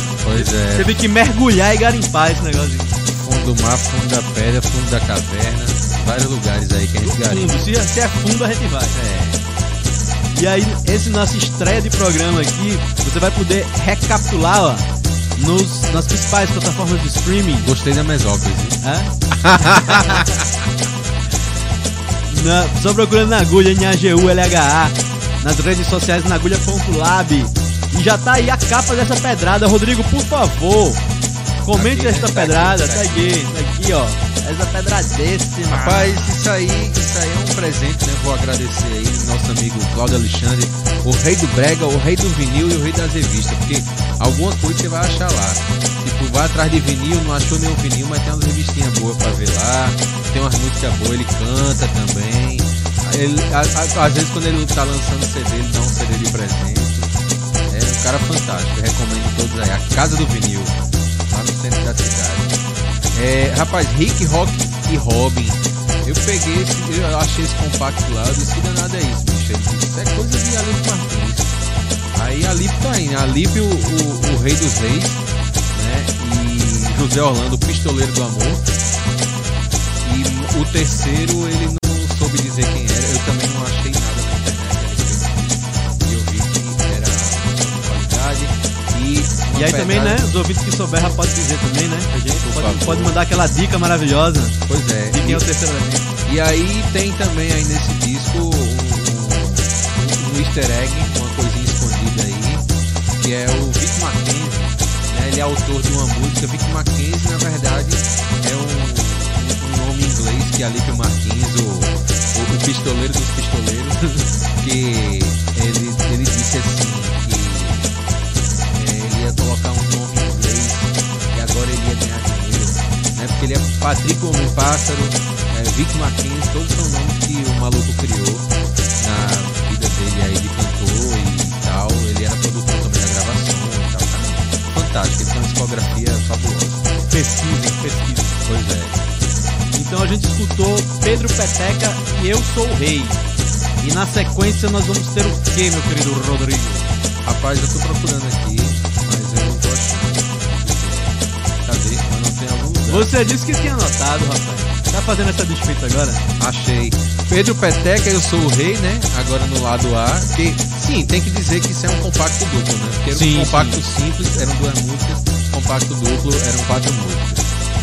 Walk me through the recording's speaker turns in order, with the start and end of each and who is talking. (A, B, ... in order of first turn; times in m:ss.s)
0:00.2-0:00.9 A
0:00.3-0:03.0 B
0:03.1-0:07.5 A
0:07.0-0:09.0 B
0:08.9-0:09.4 A
0:10.3-0:17.7 B
0:17.6-0:18.8 A
0:18.8-0:20.2 B
0:19.3-0:20.5 A
0:22.2-0:31.0 B
0:31.6-0:36.3 B
0:31.7-0:33.5 A
0:35.7-0:57.1 A
0:57.7-1:00.8 A
1:01.3-1:02.6 A
1:03.1-1:11.5 A
1:12.1-1:18.6 A
1:20.0-1:30.2 A
1:29.5-1:36.1 B
1:32.4-1:33.2 A
1:34.7-1:35.4 A
1:36.2-1:58.0 A
1:58.7-2:16.8 A
2:17.1-2:18.4 B
2:18.4-2:19.0 A
2:19.7-2:23.2 B
2:23.8-2:26.9 B
2:27.2-2:33.1 A
2:32.9-2:36.2 B
2:36.4-2:47.4 A
2:43.1-2:43.8 B